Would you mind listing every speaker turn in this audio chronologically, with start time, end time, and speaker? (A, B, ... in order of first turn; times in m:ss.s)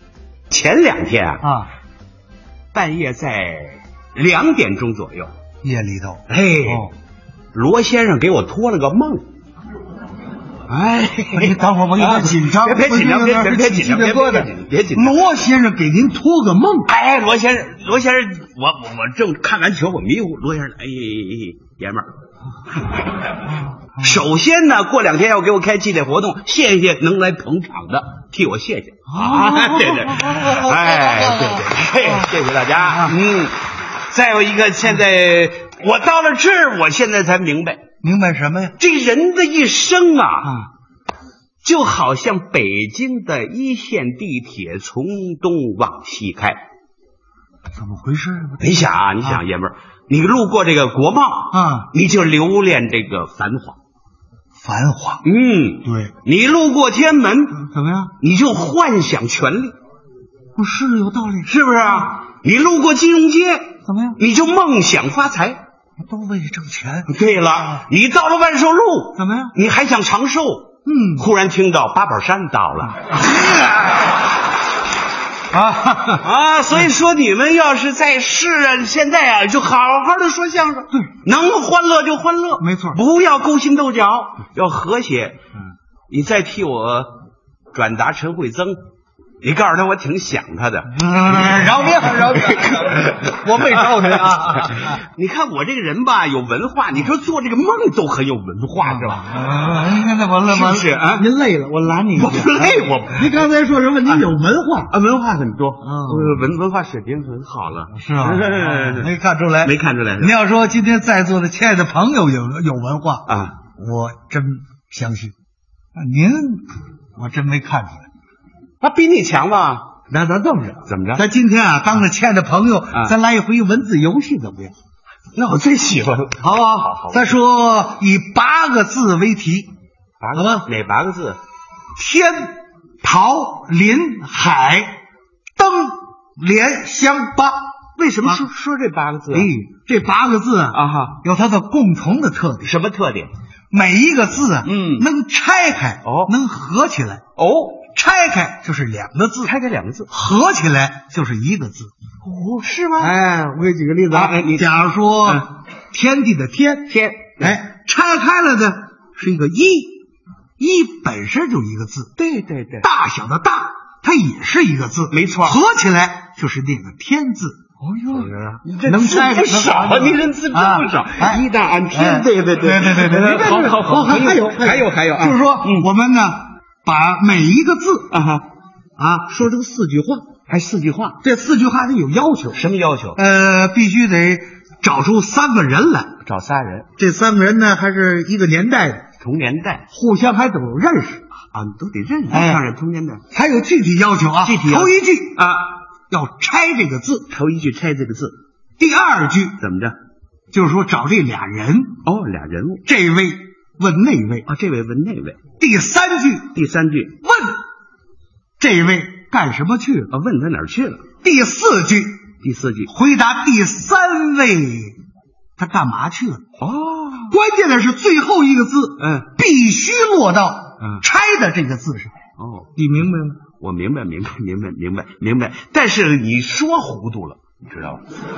0:00.5-0:01.5 A
0:01.4-0:01.7 B
0:02.7-0:05.3 A
0:05.6-0:06.9 B
0:06.3-0:06.9 A
0:07.5-0:09.2 A
0:10.7-0:15.2 A
0:11.3-0:16.9 B
0:16.8-0:22.1 A
0:22.8-0:23.3 A
0:23.5-0:24.2 B
0:24.0-0:37.8 A
0:29.1-0:33.2 B
0:38.0-0:38.7 B
0:38.8-0:40.6 A
0:41.6-0:46.6 A
0:47.8-0:49.4 B
0:48.6-0:53.8 A
0:51.5-0:51.9 B
0:54.6-0:55.2 B
0:55.2-0:57.7 A
0:55.8-0:56.1 B
0:57.5-0:58.1 B
0:58.2-0:59.8 A
1:00.6-1:02.1 B
1:01.7-1:05.6 A
1:03.8-1:04.2 B
1:06.0-1:07.8 B
1:07.1-1:13.0 A
1:09.2-1:09.5 B
1:10.8-1:11.3 B
1:13.1-1:14.0 B
1:15.5-1:16.2 B
1:16.2-1:25.4 A
1:22.6-1:23.0 B
1:26.1-1:28.8 A
1:29.4-1:31.8 A
1:30.9-1:35.0 B
1:32.3-1:39.3 A
1:38.8-1:44.9 B
1:40.5-1:41.3 A
1:42.1-1:43.5 A
1:44.0-1:44.3 A
1:44.9-1:50.3 A
1:45.8-1:46.5 B
1:47.9-1:53.2 B
1:53.2-1:53.6 A
1:53.8-1:55.3 B
1:55.9-1:58.0 B
1:58.8-2:00.0 A
2:00.1-2:04.7 B
2:00.8-2:01.2 A
2:05.4-2:07.4 A
2:06.4-2:09.7 B
2:10.2-2:11.4 A
2:10.3-2:10.6 B
2:12.0-2:14.9 B
2:15.6-2:17.7 B
2:18.0-2:19.5 A
2:19.3-2:22.7 B
2:20.7-2:21.2 A
2:22.6-2:23.3 A
2:23.7-2:27.2 B
2:24.6-2:25.1 A
2:26.0-2:26.3 A
2:27.4-2:27.9 A
2:27.9-2:29.5 B
2:29.4-2:30.1 A
2:30.1-2:31.9 B
2:32.2-2:33.2 A
2:33.0-2:40.0 B
2:34.1-2:34.7 A
2:36.9-2:37.6 A
2:40.6-2:42.1 B
2:42.2-2:42.9 A
2:42.8-2:58.1 B
2:45.1-2:45.6 A
2:47.8-2:55.9 A
2:58.1-2:58.4 A
2:59.0-3:00.2 B
3:00.5-3:01.2 A
3:01.2-3:02.6 B
3:02.5-3:03.2 A
3:03.2-3:06.1 B
3:06.2-3:06.9 A
3:07.0-3:09.0 B
3:09.2-3:09.8 A
3:09.9-3:11.2 B
3:11.5-3:13.2 A
3:12.3-3:12.6 B
3:13.3-3:15.4 B
3:14.4-3:15.8 A
3:16.1-3:17.3 B
3:17.3-3:18.4 A
3:18.8-3:19.6 B
3:19.6-3:20.0 A
3:20.5-3:22.0 B
3:22.0-3:22.8 A
3:22.8-3:24.4 B
3:24.4-3:25.4 A
3:25.6-3:26.5 B
3:26.5-3:27.2 A
3:27.2-3:27.6 B
3:28.6-3:30.1 B
3:30.1-3:31.0 A
3:31.2-3:32.2 B
3:32.4-3:32.9 A
3:32.9-3:35.0 B
3:35.6-3:36.4 B
3:36.6-3:37.4 A
3:37.3-3:42.1 B
3:39.0-3:39.3 A
3:40.8-3:41.0 A
3:42.4-3:42.8 A
3:42.8-3:43.4 B
3:43.5-3:48.0 A